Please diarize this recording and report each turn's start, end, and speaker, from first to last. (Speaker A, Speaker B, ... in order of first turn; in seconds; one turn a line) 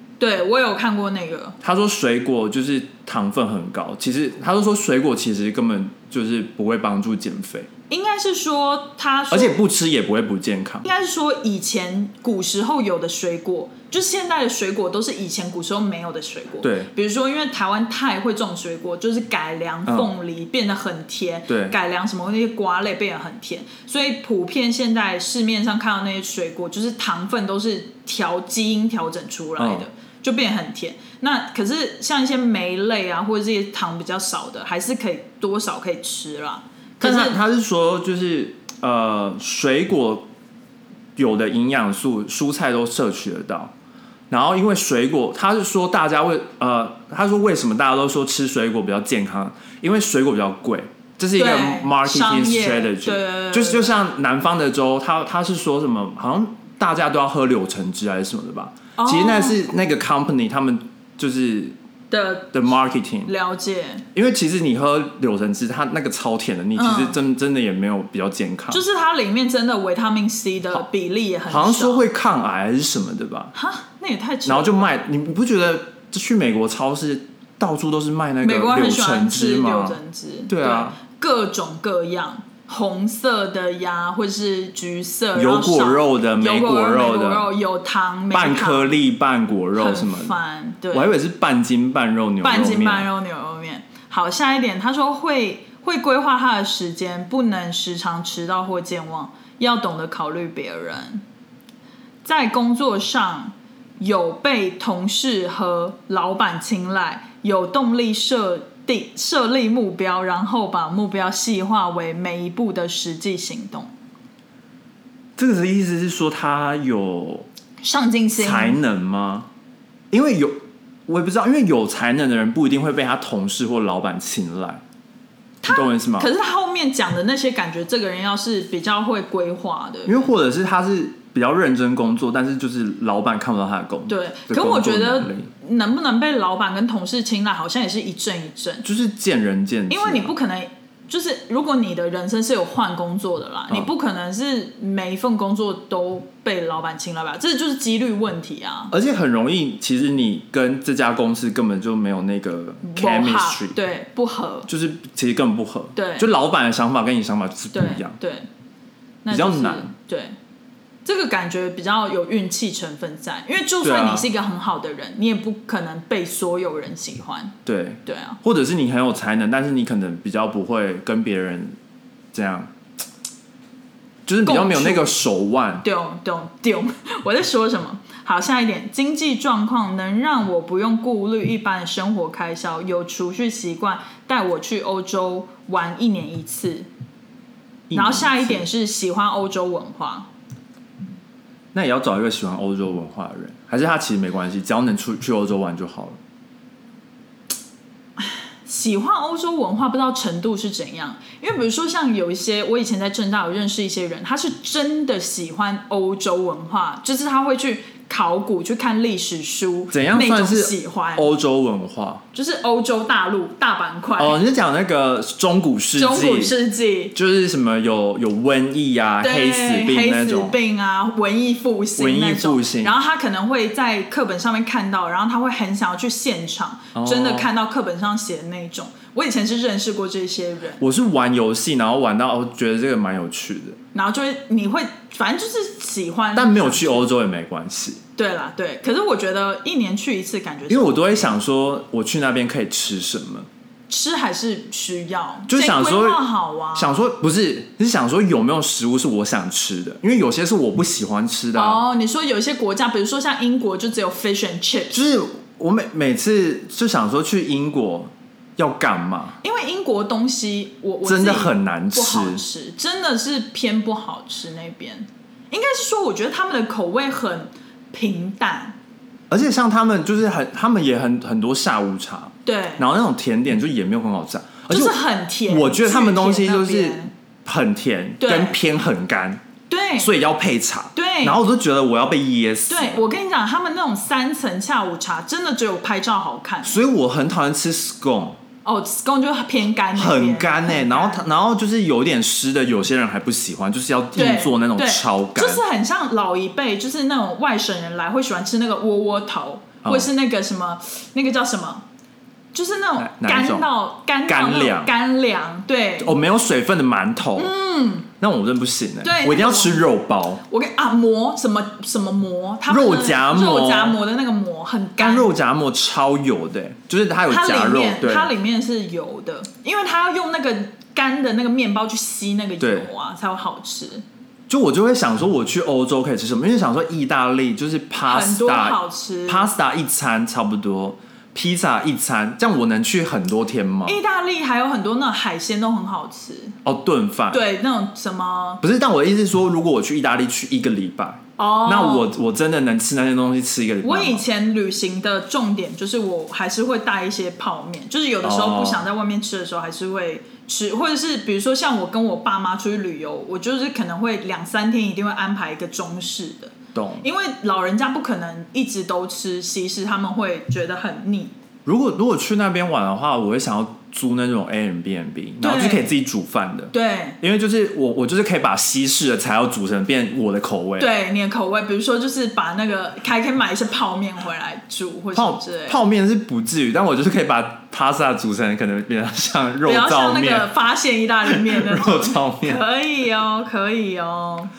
Speaker A: 0.2-1.6
Speaker B: 1.6-7.7
Speaker A: 7.9-9.6
Speaker B: 9.3-10.8
Speaker A: 10.8-37.4
Speaker B: 16.6-16.9
Speaker B: 19.9-20.1
Speaker B: 21.5-21.8
Speaker B: 29.6-29.9
Speaker B: 37.0-40.3
Speaker B: 41.2-43.7
Speaker B: 44.3-61.8
Speaker A: 51.4-54.0
Speaker A: 59.0-59.6
Speaker A: 62.1-62.5
Speaker B: 62.5-63.3
Speaker A: 63.3-64.0
Speaker B: 64.1-68.8
Speaker A: 66.8-67.2
Speaker A: 68.7-72.1
Speaker B: 71.5-73.5
Speaker A: 73.5-74.9
Speaker B: 74.5-81.0
Speaker A: 78.4-89.0
Speaker B: 85.3-87.5
Speaker B: 88.3-90.3
Speaker A: 89.8-91.1
Speaker B: 90.9-93.1
Speaker A: 92.4-101.2
Speaker A: 102.2-113.9
Speaker B: 115.4-117.5
Speaker A: 117.8-118.8
Speaker B: 118.4-119.5
Speaker B: 120.1-124.8
Speaker A: 125.6-130.3
Speaker B: 125.7-126.3
Speaker B: 130.1-135.5
Speaker A: 134.1-138.9
Speaker B: 138.8-140.3
Speaker A: 139.9-148.9
Speaker B: 148.9-153.8
Speaker A: 152.8-154.7
Speaker B: 154.7-158.2
Speaker A: 156.0-156.3
Speaker A: 157.7-158.5
Speaker A: 159.2-160.3
Speaker B: 159.3-159.9
Speaker A: 161.1-168.4
Speaker B: 163.8-164.3
Speaker B: 167.7-171.8
Speaker B: 172.3-172.7
Speaker B: 174.3-175.8
Speaker A: 174.4-175.2
Speaker A: 175.8-186.9
Speaker B: 187.9-188.7
Speaker A: 187.9-190.3
Speaker B: 191.7-196.2
Speaker A: 198.2-211.3
Speaker B: 209.9-212.2
Speaker A: 212.3-214.4
Speaker B: 214.2-216.6
Speaker A: 216.0-217.2
Speaker B: 217.2-220.6
Speaker A: 219.2-230.8
Speaker B: 222.0-223.0
Speaker B: 226.9-227.5
Speaker B: 230.8-233.8
Speaker A: 233.9-237.1
Speaker B: 236.3-238.0
Speaker A: 238.2-241.4
Speaker B: 240.7-243.5
Speaker A: 243.9-247.0
Speaker B: 245.5-246.2
Speaker B: 246.8-251.8
Speaker A: 251.6-255.0
Speaker B: 254.9-259.4
Speaker A: 259.4-268.8
Speaker B: 261.1-262.4
Speaker B: 269.3-279.4
Speaker A: 272.4-272.8
Speaker A: 274.7-277.1
Speaker A: 278.2-278.6
Speaker A: 279.7-280.1
Speaker B: 280.0-283.0
Speaker A: 280.9-281.4
Speaker A: 282.7-286.8
Speaker B: 286.6-288.4
Speaker A: 288.6-291.2
Speaker B: 289.9-295.6
Speaker A: 294.1-301.9
Speaker B: 299.8-300.1
Speaker A: 302.5-306.1
Speaker B: 303.0-303.7
Speaker B: 304.3-304.9
Speaker B: 306.0-307.5
Speaker A: 307.4-308.1
Speaker B: 308.2-310.4
Speaker A: 309.0-309.9
Speaker A: 310.5-315.4
Speaker B: 312.7-314.0
Speaker B: 315.0-318.3
Speaker A: 317.3-324.0
Speaker B: 322.6-322.9
Speaker B: 324.5-334.0
Speaker A: 328.1-329.5
Speaker A: 333.9-336.6
Speaker B: 336.6-337.4
Speaker A: 337.3-338.6
Speaker B: 338.6-344.3
Speaker A: 341.4-342.1
Speaker A: 343.8-361.3
Speaker B: 348.2-348.9
Speaker B: 356.7-357.1
Speaker B: 361.6-370.9
Speaker A: 365.4-365.9
Speaker A: 366.7-367.2
Speaker A: 370.8-375.8
Speaker B: 375.1-380.5
Speaker A: 379.6-384.5
Speaker B: 381.3-382.6